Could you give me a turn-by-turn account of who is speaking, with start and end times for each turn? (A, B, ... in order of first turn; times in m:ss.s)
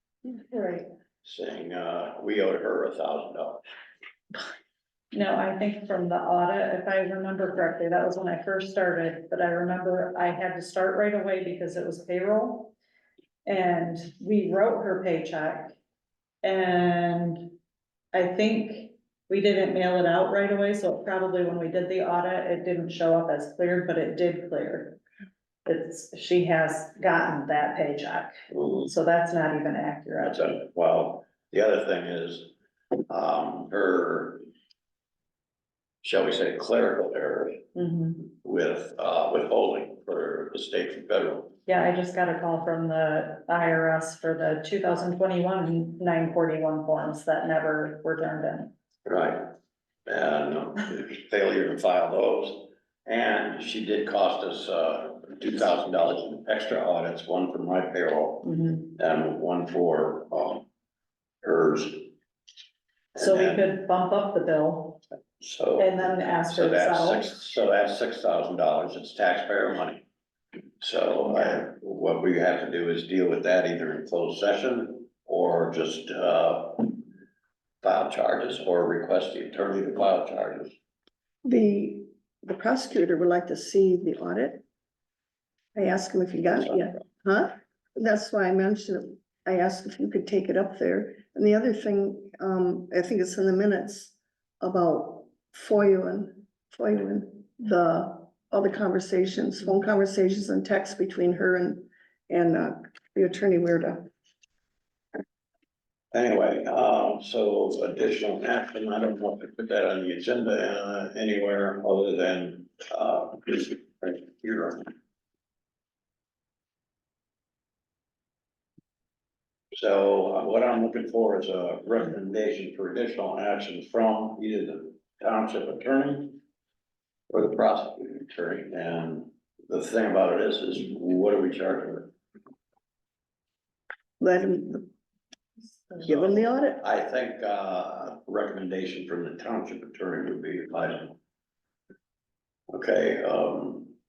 0:00.2-0:00.9 A
0:01.2-0:03.6 B
0:05.1-0:12.7 A
0:13.4-0:15.7 A
0:16.4-0:17.6 A
0:18.1-0:25.0 A
0:25.6-0:28.3 A
0:28.5-0:28.9 B
0:28.8-0:30.4 A
0:30.2-0:32.5 B
0:33.1-0:34.4 B
0:36.0-0:37.6 B
0:37.7-0:38.2 A
0:38.3-0:41.6 B
0:41.6-0:48.7 A
0:49.0-0:49.5 B
0:50.0-1:00.6 B
1:01.4-1:02.1 B
1:03.1-1:03.6 B
1:03.2-1:05.0 A
1:05.4-1:10.0 B
1:05.8-1:07.3 A
1:10.8-1:17.0 B
1:17.8-1:20.8 B
1:21.4-1:24.6 C
1:25.7-1:44.1 C
1:46.1-1:54.9 B
1:59.7-2:06.4 B
2:07.3-2:12.1 B
2:14.2-2:14.9 C
2:16.0-2:16.8 C
2:16.0-2:21.2 B
2:22.7-2:23.9 B